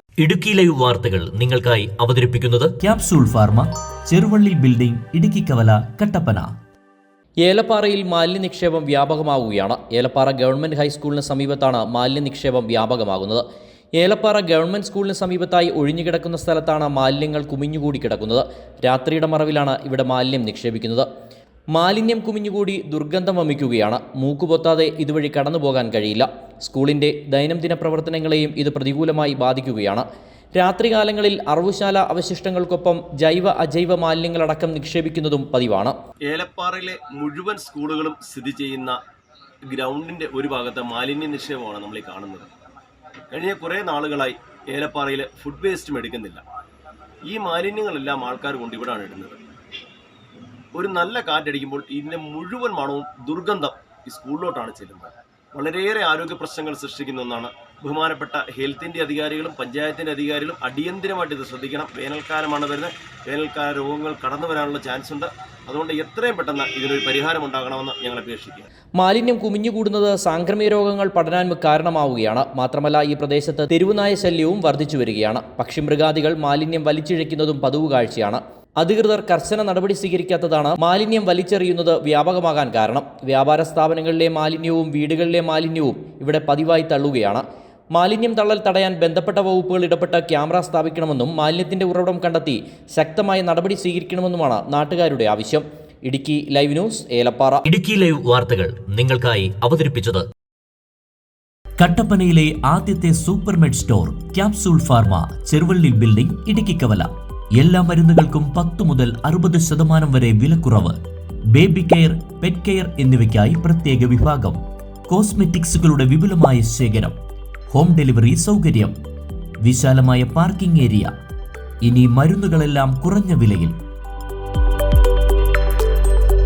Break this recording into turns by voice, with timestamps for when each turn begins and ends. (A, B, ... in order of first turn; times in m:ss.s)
0:00.2-0:02.7 A
0:00.5-0:06.5 B
0:07.4-0:13.4 C
0:14.0-0:21.1 C
0:21.7-0:36.0 C
0:36.3-0:39.0 D
0:39.7-0:42.5 D
0:43.3-0:46.4 D
0:47.3-0:49.4 D
0:50.7-1:08.7 D
1:09.0-1:37.6 C
1:37.7-1:40.2 A
1:41.8-1:51.0 B
1:51.5-1:57.2 B
1:57.7-1:59.0 B
1:59.6-2:01.1 B
2:01.8-2:03.8 B